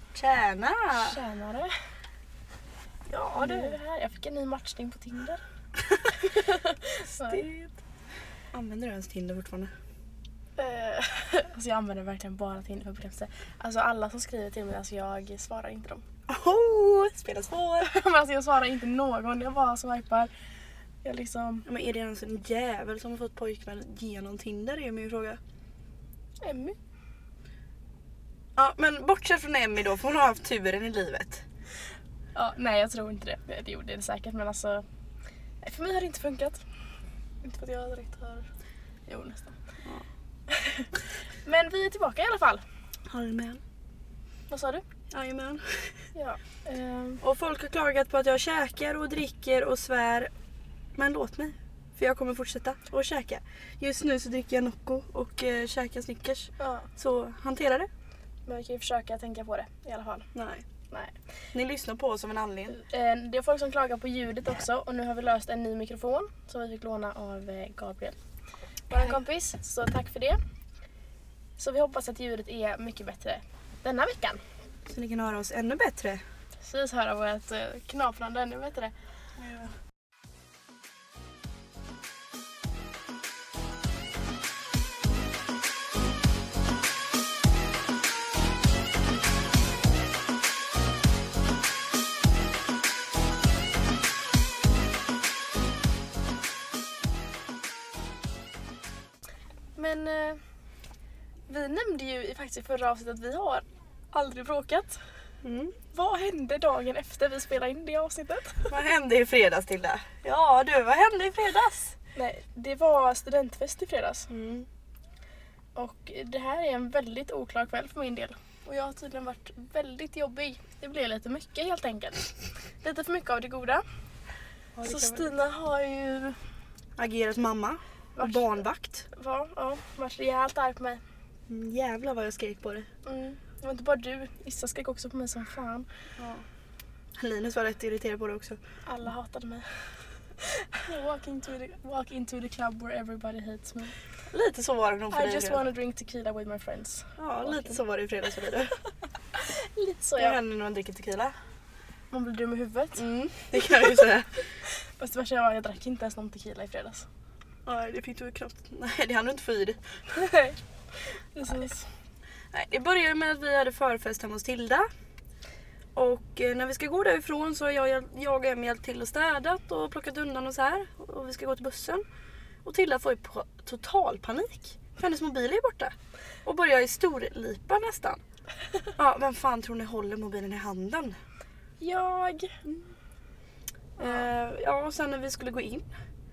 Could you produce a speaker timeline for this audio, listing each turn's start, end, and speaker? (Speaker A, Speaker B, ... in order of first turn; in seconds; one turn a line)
Speaker A: 0.1-1.2
Speaker B: 0.9-1.8
Speaker A: 3.1-3.8
Speaker B: 3.4-5.4
Speaker B: 6.0-7.4
Speaker A: 7.0-7.8
Speaker A: 8.5-9.7
Speaker B: 10.6-16.0
Speaker A: 16.3-17.9
Speaker B: 17.8-20.3
Speaker B: 21.0-21.6
Speaker A: 21.6-25.4
Speaker B: 26.4-26.8
Speaker A: 28.6-31.4
Speaker B: 32.4-34.9
Speaker B: 35.6-36.6
Speaker B: 37.4-38.5
Speaker B: 39.1-39.6
Speaker B: 40.5-40.9
Speaker B: 41.4-42.6
Speaker A: 43.1-43.6
Speaker B: 44.5-44.9
Speaker A: 45.1-46.0
Speaker B: 46.1-47.2
Speaker A: 47.2-50.3
Speaker A: 51.0-57.9
Speaker B: 56.6-56.9
Speaker B: 58.5-60.3
Speaker A: 60.4-60.6
Speaker B: 60.9-61.2
Speaker A: 61.5-62.8
Speaker B: 62.7-68.2
Speaker B: 68.9-70.4
Speaker B: 71.6-74.4
Speaker A: 74.9-76.2
Speaker B: 76.6-78.9
Speaker A: 79.4-79.8
Speaker B: 99.8-100.4
Speaker B: 101.5-105.0
Speaker A: 105.4-105.8
Speaker B: 105.9-108.7
Speaker A: 108.7-112.0
Speaker B: 112.2-114.3
Speaker A: 114.3-114.7
Speaker B: 115.8-123.8
Speaker A: 124.8-125.3
Speaker B: 124.8-126.4
Speaker A: 127.0-129.1
Speaker B: 128.2-131.0
Speaker A: 131.5-132.9
Speaker B: 133.1-135.9
Speaker A: 136.2-136.4
Speaker A: 137.2-138.6
Speaker B: 138.9-139.7
Speaker B: 140.4-143.9
Speaker A: 144.3-145.7
Speaker B: 145.1-147.8
Speaker A: 147.2-148.8
Speaker B: 149.3-150.4
Speaker A: 150.2-151.3
Speaker B: 152.1-153.0
Speaker A: 153.0-154.4
Speaker B: 154.7-157.1
Speaker A: 157.7-159.8
Speaker B: 160.1-160.6
Speaker B: 161.3-161.9
Speaker A: 162.5-164.9
Speaker A: 166.0-172.0
Speaker A: 172.7-175.9
Speaker A: 176.4-178.2
Speaker A: 179.0-181.2
Speaker B: 181.8-182.6
Speaker A: 184.0-185.9